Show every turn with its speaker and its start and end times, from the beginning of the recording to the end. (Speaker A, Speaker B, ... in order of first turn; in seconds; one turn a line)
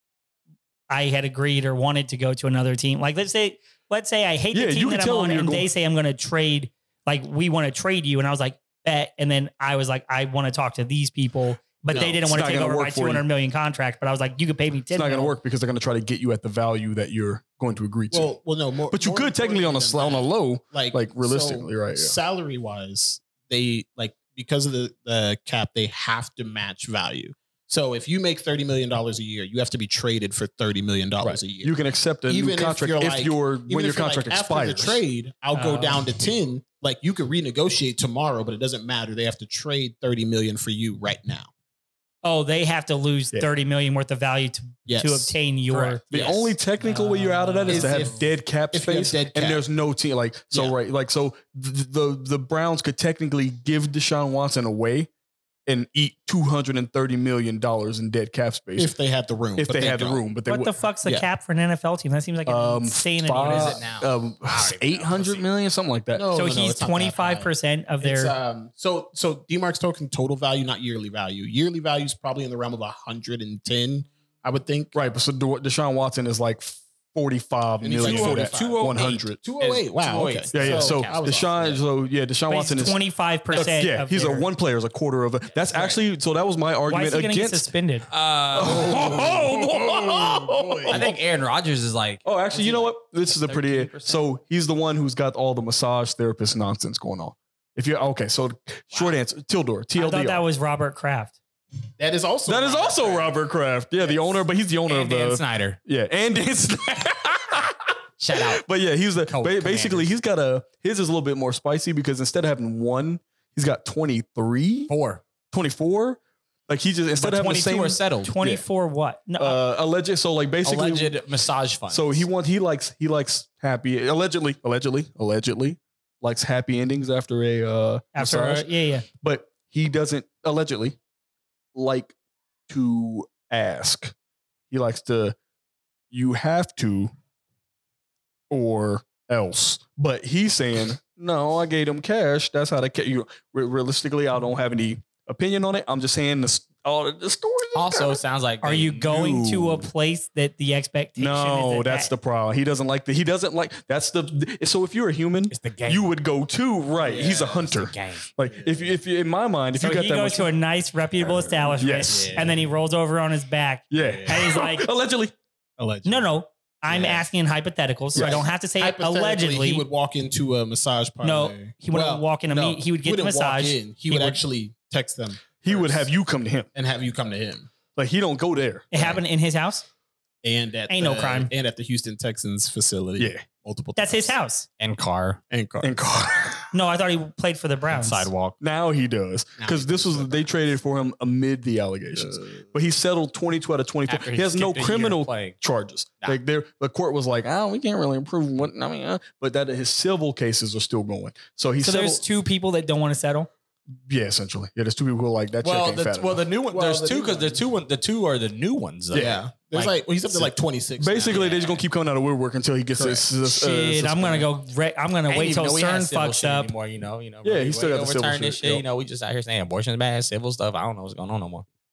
Speaker A: 0.9-15.3
Speaker B: 4.5-5.7
Speaker C: 11.9-12.3
Speaker B: 12.2-13.2
Speaker B: 14.9-18.4
Speaker C: 18.1-31.8
Speaker B: 18.9-22.2
Speaker B: 31.2-35.0
Speaker C: 32.3-41.5
Speaker A: 35.5-36.1
Speaker A: 42.2-46.0
Speaker C: 44.9-45.3
Speaker D: 45.7-46.5
Speaker B: 46.1-55.1
Speaker C: 46.1-46.5
Speaker A: 46.8-48.1
Speaker C: 47.7-49.6
Speaker B: 55.7-58.9
Speaker C: 58.8-60.2
Speaker B: 59.6-60.8
Speaker A: 60.5-63.8
Speaker B: 62.5-66.4
Speaker D: 63.4-65.5
Speaker C: 66.2-75.0
Speaker A: 66.3-68.3
Speaker B: 74.9-79.4
Speaker C: 77.8-81.8
Speaker D: 78.0-81.4
Speaker B: 80.5-87.7
Speaker A: 82.5-84.5
Speaker D: 83.5-83.8
Speaker C: 85.7-86.0
Speaker A: 86.9-88.1
Speaker D: 88.1-89.5
Speaker B: 88.5-91.2
Speaker C: 88.6-91.1
Speaker D: 90.9-94.2
Speaker B: 92.2-100.4
Speaker A: 100.0-101.3
Speaker C: 102.0-103.4
Speaker B: 102.5-114.9
Speaker C: 104.0-104.4
Speaker D: 104.9-105.8
Speaker D: 108.2-108.7
Speaker D: 109.2-110.1
Speaker D: 114.9-115.2
Speaker B: 115.5-118.6
Speaker D: 117.2-118.3
Speaker A: 118.2-119.6
Speaker B: 119.4-121.2
Speaker D: 120.7-122.3
Speaker B: 121.9-128.7
Speaker A: 128.2-129.1
Speaker B: 129.2-131.0
Speaker B: 131.7-132.1
Speaker B: 132.7-134.1
Speaker B: 134.7-135.4
Speaker B: 136.1-137.1
Speaker B: 138.5-148.2
Speaker D: 147.8-149.2
Speaker A: 148.6-152.1
Speaker B: 149.1-149.9
Speaker B: 151.2-160.5
Speaker D: 155.5-156.1
Speaker C: 157.0-157.7
Speaker D: 157.4-158.3
Speaker C: 158.5-158.9
Speaker A: 159.7-164.9
Speaker B: 161.3-162.4
Speaker C: 162.1-162.5
Speaker B: 163.9-165.3
Speaker C: 164.0-164.3
Speaker C: 165.8-166.3
Speaker A: 166.1-169.9
Speaker C: 166.9-167.3
Speaker B: 168.1-168.4
Speaker C: 168.2-176.1
Speaker A: 171.2-174.4
Speaker B: 175.6-176.7
Speaker C: 176.8-177.7
Speaker B: 177.9-179.1
Speaker A: 178.9-179.8
Speaker C: 180.4-184.3
Speaker A: 180.9-181.5
Speaker B: 183.2-183.4
Speaker A: 184.0-184.7
Speaker D: 184.8-185.4
Speaker C: 185.5-186.1
Speaker B: 185.8-186.7
Speaker A: 186.7-188.3
Speaker D: 187.9-188.6
Speaker B: 188.6-202.2
Speaker C: 189.6-190.5
Speaker C: 192.2-192.6
Speaker D: 194.1-195.6
Speaker A: 201.8-203.5
Speaker B: 204.1-206.4
Speaker D: 205.6-210.5
Speaker C: 206.7-207.6
Speaker B: 209.1-209.4
Speaker C: 209.1-211.4
Speaker B: 211.0-214.5
Speaker D: 211.2-211.8
Speaker C: 213.0-213.2
Speaker A: 213.4-216.7
Speaker D: 215.3-221.7
Speaker B: 217.4-218.8